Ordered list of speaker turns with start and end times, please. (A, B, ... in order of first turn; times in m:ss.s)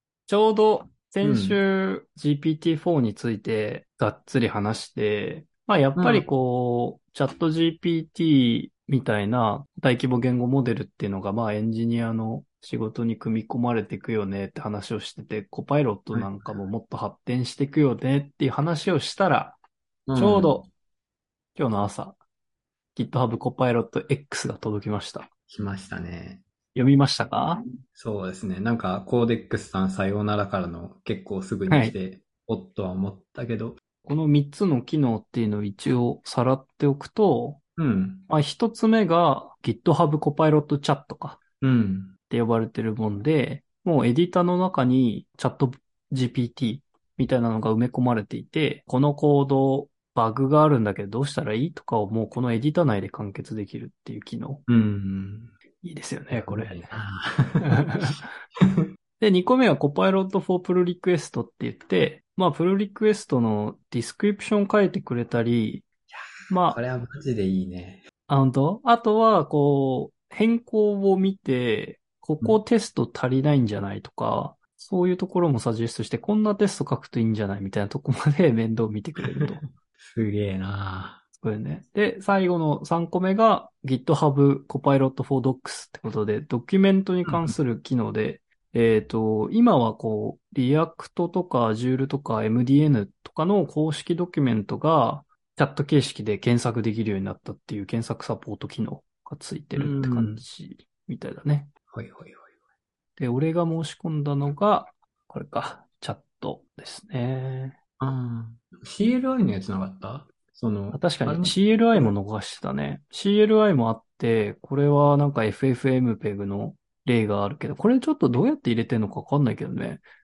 0:00.3-0:19.6 A
0:01.2-0:01.6 B
0:06.0-0:06.2 B
0:16.1-0:16.6 B
0:20.1-0:20.6 B
0:20.1-0:20.7 A
0:21.6-0:22.2 A
0:22.9-0:25.3 A
0:25.5-0:26.4 B
0:26.7-0:27.6 A
0:27.9-0:33.8 B
0:31.7-0:32.0 A
0:34.0-0:37.6 A
0:37.8-0:38.3 B
0:38.3-0:41.4 A
0:41.6-0:42.1 B
0:42.3-0:54.6 A
0:54.7-0:55.5 B
0:55.8-0:56.9 A
0:56.3-0:58.9 B
0:57.6-0:58.4 A
0:59.2-1:05.9 A
1:06.1-1:08.0 B
1:06.5-1:06.8 A
1:08.3-1:19.6 A
1:19.3-1:21.2 B
1:21.4-1:41.7 A
1:27.2-1:27.6 B
1:39.8-1:40.4 B
1:41.9-1:42.5 B
1:43.2-1:47.8 A
1:48.0-1:52.2 B
1:50.9-2:00.0 A